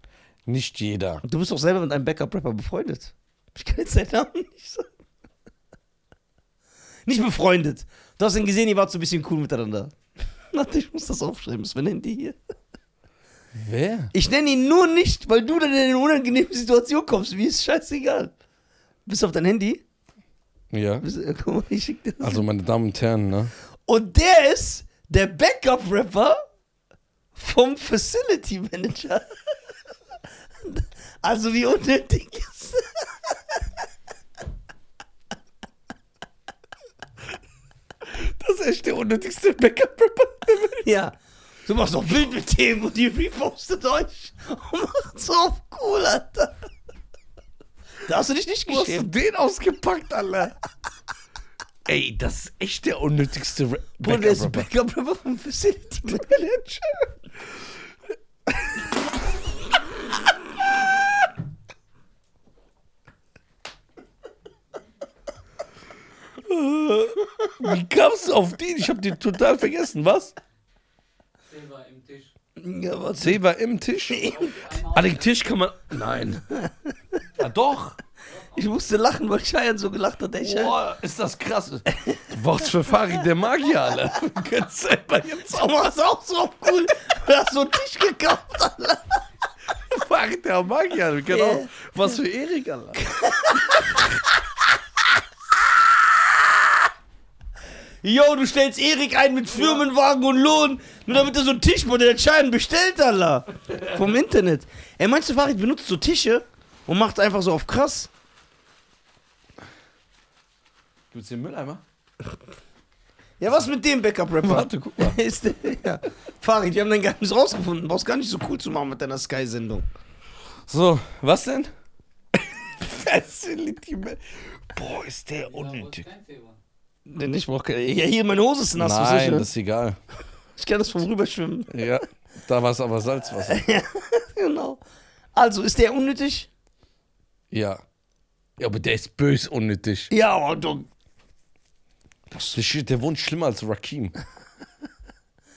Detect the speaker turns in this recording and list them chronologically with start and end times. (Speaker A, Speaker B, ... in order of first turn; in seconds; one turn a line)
Speaker A: 0.5-1.2
Speaker B: 1.2-4.9
Speaker B: 7.1-9.9
Speaker B: 10.5-12.4
Speaker A: 13.6-14.1
Speaker B: 14.1-18.3
Speaker B: 19.1-19.8
Speaker A: 20.7-21.1
Speaker B: 21.0-22.4
Speaker A: 22.2-23.5
Speaker B: 23.9-26.4
Speaker B: 27.4-29.4
Speaker B: 30.6-33.4
Speaker A: 38.1-40.9
Speaker B: 40.8-46.6
Speaker B: 48.1-49.1
Speaker A: 48.7-50.5
Speaker A: 51.9-54.7
Speaker B: 54.0-56.6
Speaker A: 56.1-56.9
Speaker A: 66.4-70.3
Speaker C: 71.5-72.3
Speaker B: 72.6-73.4
Speaker A: 73.2-76.5
Speaker B: 74.1-74.5
Speaker C: 74.2-75.4
Speaker A: 77.4-78.0
Speaker B: 78.5-80.8
Speaker A: 80.4-85.9
Speaker B: 85.5-89.2
Speaker A: 89.9-93.0
Speaker B: 91.3-91.7
Speaker B: 93.0-94.1
Speaker B: 98.0-108.1
Speaker A: 111.1-111.8
Speaker B: 113.4-119.8
Speaker A: 114.4-115.2
Speaker A: 120.7-121.7
Speaker A: 122.3-126.1
Speaker C: 125.4-126.6
Speaker B: 127.1-129.5
Speaker A: 128.8-130.0
Speaker B: 130.6-131.9
Speaker A: 131.7-133.6
Speaker B: 133.4-134.8
Speaker B: 135.3-136.5
Speaker A: 137.5-137.8
Speaker A: 138.6-140.1
Speaker B: 140.1-140.9
Speaker B: 142.3-142.6
Speaker A: 142.5-144.1